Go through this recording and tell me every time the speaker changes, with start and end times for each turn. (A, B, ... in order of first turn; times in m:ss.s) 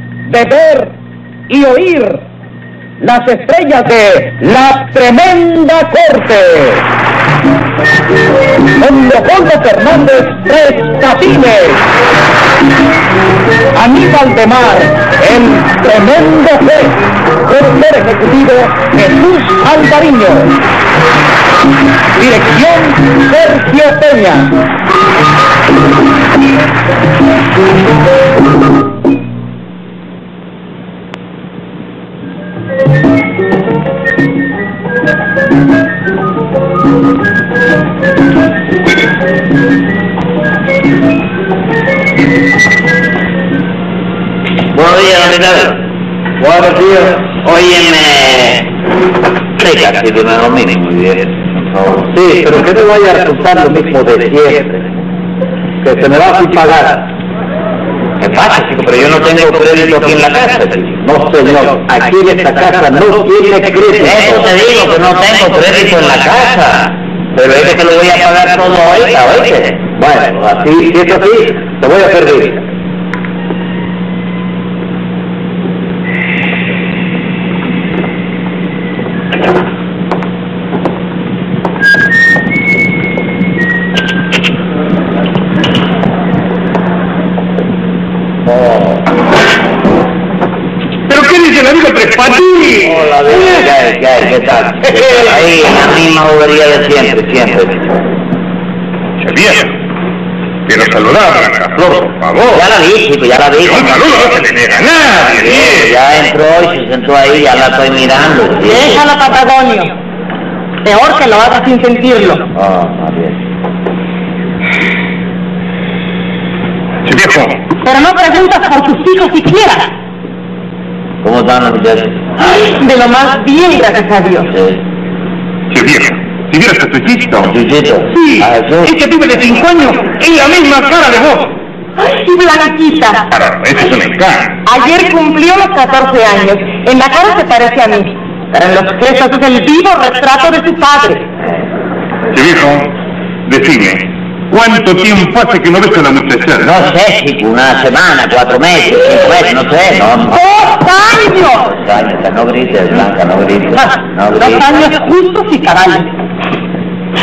0:00.3-0:00.9 A
0:01.5-0:02.2 A
0:03.0-0:06.9 A
0:08.8-0:11.8 A
0:13.8-0:20.6 A
0:22.2-0:24.5 A
0:44.7-0:45.8 B
0:46.4-0:47.2 C
0:47.2-0:48.7 B
0:49.6-0:52.1 B
0:52.1-0:54.8 C
0:55.8-0:57.1 C
0:58.2-1:00.9 B
0:58.5-1:04.3 C
1:04.0-1:09.9 B
1:10.0-1:12.6 C
1:28.5-1:29.0 B
1:31.1-1:33.6 D
1:32.8-1:37.9 B
1:34.9-1:35.4 D
1:39.2-1:39.7 D
1:40.7-1:42.6 D
1:42.5-1:44.1 B
1:43.6-1:46.0 D
1:45.2-1:49.0 B
1:48.6-1:49.9 E
1:50.8-1:52.5 E
1:52.5-1:53.4 B
1:57.1-1:57.6 D
1:57.8-1:59.9 E
2:01.2-2:02.2 B
2:02.5-2:04.5 E
2:04.5-2:04.8 B
2:05.7-2:07.5 D
2:07.4-2:08.9 B
2:08.1-2:11.5 D
2:12.0-2:13.2 E
2:13.3-2:14.6 D
2:14.7-2:21.2 E
2:22.3-2:22.9 D
2:23.5-2:26.7 D
2:26.6-2:30.4 B
2:30.3-2:31.7 E
2:31.6-2:34.7 B
2:33.8-2:36.1 E